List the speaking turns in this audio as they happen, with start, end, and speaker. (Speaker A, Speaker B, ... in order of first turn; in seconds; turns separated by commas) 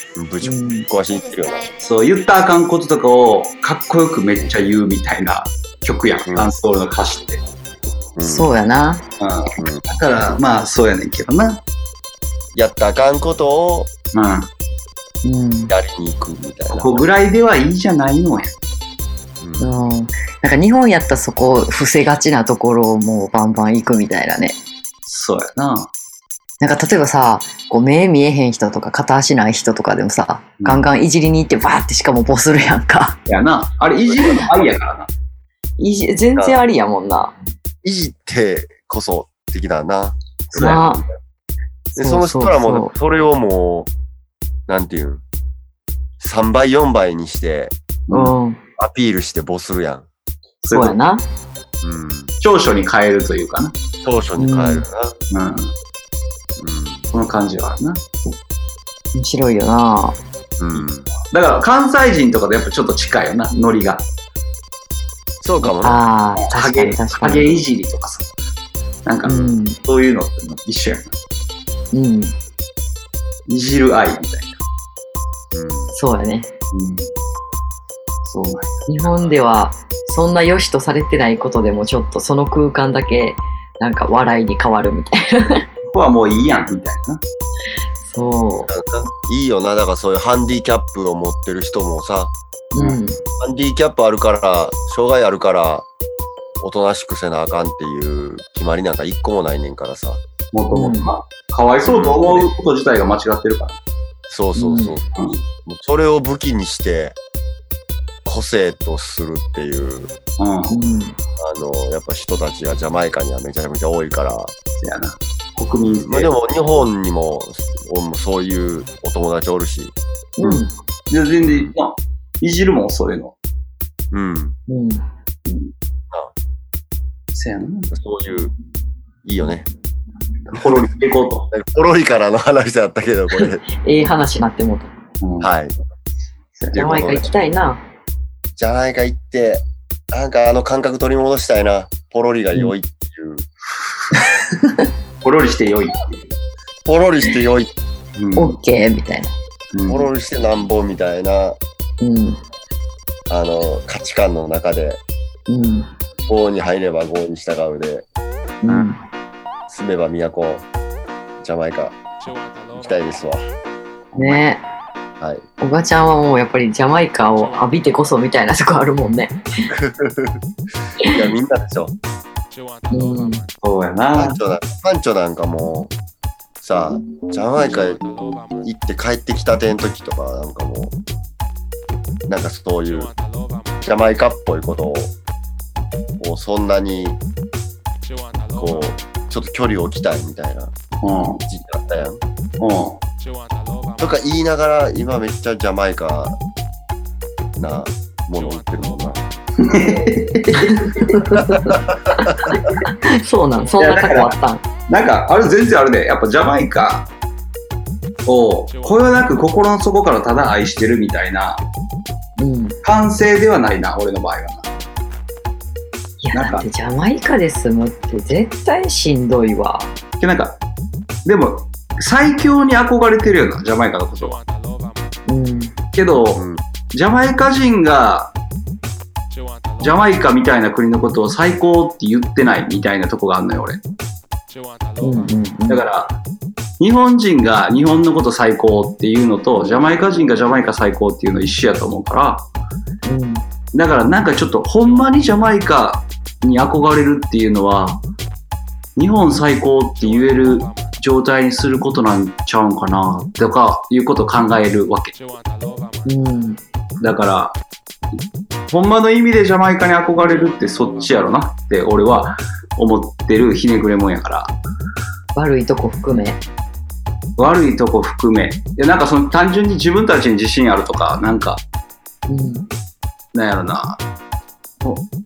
Speaker A: 0.2-1.7, Speaker B: 0.4-0.9, Speaker C: 1.8-7.4, Speaker A: 6.3-6.5, Speaker A: 8.2-8.5, Speaker B: 8.2-9.0, Speaker C: 9.2-11.6, Speaker A: 9.6-9.8, Speaker A: 12.5-13.9, Speaker C: 14.1-14.5, Speaker B: 15.2-15.7, Speaker A: 15.7-17.1, Speaker C: 16.7-18.6, Speaker A: 19.4-19.8, Speaker B: 19.6-24.6, Speaker C: 25.1-25.9, Speaker B: 26.6-33.2, Speaker C: 33.3-35.1, Speaker B: 35.8-37.3, Speaker A: 37.8-41.0, Speaker C: 40.5-40.8, Speaker B: 40.5-41.0, Speaker A: 42.0-43.9, Speaker B: 42.0-42.9, Speaker A: 44.7-45.2, Speaker A: 46.2-47.7, Speaker C: 48.1-48.4, Speaker B: 48.1-48.6, Speaker A: 48.8-50.1, Speaker C: 50.6-51.0, Speaker B: 50.7-51.2, Speaker A: 51.8-52.3, Speaker C: 52.4-53.8, Speaker A: 54.0-55.1, Speaker B: 54.4-54.9, Speaker C: 55.3-55.7, Speaker A: 56.6-57.1, Speaker C: 57.1-58.3, Speaker B: 59.1-60.2, Speaker A: 60.6-61.1, Speaker C: 60.8-64.1, Speaker A: 65.4-66.0, Speaker B: 65.8-67.6, Speaker C: 66.4-68.3, Speaker C: 69.1-71.2, Speaker B: 69.2-69.8, Speaker B: 71.9-72.3, Speaker C: 73.5-74.6, Speaker A: 75.5-75.9, Speaker B: 75.9-76.5, Speaker C: 76.7-77.1, Speaker C: 78.2-79.3, Speaker B: 78.9-85.7, Speaker C: 85.8-87.2, Speaker B: 88.0-88.7, Speaker A: 88.7-92.3, Speaker B: 92.7-93.2, Speaker A: 93.4-95.9, Speaker A: 96.6-100.2, Speaker C: 100.5-103.8, Speaker B: 100.7-101.1, Speaker A: 101.8-102.5, Speaker A: 104.3-105.1, Speaker B: 104.5-105.0, Speaker C: 105.2-105.4, Speaker A: 105.7-107.2, Speaker A: 108.2-110.1, Speaker C: 110.4-110.7, Speaker B: 110.7-111.2, Speaker A: 111.4-114.5, Speaker C: 114.8-116.3, Speaker A: 115.9-119.9, Speaker B: 120.4-120.7, Speaker C: 120.4-123.3, Speaker A: 121.4-121.7, Speaker A: 124.1-124.6, Speaker B: 124.7-125.0, Speaker C: 125.5-125.7, Speaker C: 127.3-127.9, Speaker A: 127.9-128.5, Speaker A: 129.2-129.7, Speaker C: 130.5-131.5, Speaker A: 130.5-130.9, Speaker A: 131.5-133.6, Speaker B: 133.4-134.9, Speaker C: 135.2-135.5, Speaker A: 135.4-135.8, Speaker C: 136.6-137.2, Speaker A: 136.7-137.3, Speaker B: 136.7-137.8, Speaker A: 138.5-143.5, Speaker B: 144.1-144.9, Speaker C: 145.2-146.3, Speaker A: 146.8-147.7, Speaker C: 148.2-148.6, Speaker B: 148.4-149.3, Speaker C: 149.7-150.1, Speaker A: 149.9-151.6, Speaker B: 152.0-152.4, Speaker A: 153.3-155.0, Speaker B: 155.5-155.9, Speaker A: 156.3-158.1, Speaker B: 158.6-159.0, Speaker A: 159.7-160.7, Speaker A: 161.4-162.0, Speaker A: 162.7-163.4, Speaker B: 164.2-164.6, Speaker B: 165.6-169.7, Speaker A: 169.7-170.4, Speaker A: 171.0-171.9, Speaker B: 172.9-173.4, Speaker C: 173.6-174.4, Speaker A: 174.2-175.9, Speaker A: 176.6-180.9, Speaker A: 182.3-183.2, Speaker A: 183.8-185.2, Speaker A: 186.2-187.2, Speaker A: 188.6-190.7, Speaker C: 191.0-191.4, Speaker A: 191.5-192.2, Speaker C: 192.6-193.0, Speaker A: 194.0-196.4, Speaker A: 197.6-199.2, Speaker C: 199.6-201.2, Speaker B: 200.6-204.7, Speaker A: 201.3-202.7, Speaker C: 203.8-204.3, Speaker C: 204.9-207.1, Speaker C: 208.2-211.6, Speaker B: 212.4-212.8, Speaker C: 212.8-214.7, Speaker B: 216.2-219.9, Speaker C: 216.3-216.7, Speaker C: 220.2-220.6, Speaker C: 221.2-224.4, Speaker B: 225.3-225.7, Speaker C: 225.9-228.3, Speaker A: 226.3-226.6, Speaker C: 229.8-233.8, Speaker B: 235.0-235.8, Speaker C: 235.7-236.2, Speaker C: 236.8-242.4, Speaker B: 243.1-243.4, Speaker C: 243.7-248.0, Speaker C: 249.0-255.2, Speaker B: 256.1-256.6, Speaker C: 257.0-257.6, Speaker C: 258.7-264.6, Speaker B: 265.4-266.4, Speaker C: 267.4-271.6, Speaker B: 272.3-272.7, Speaker C: 273.3-274.0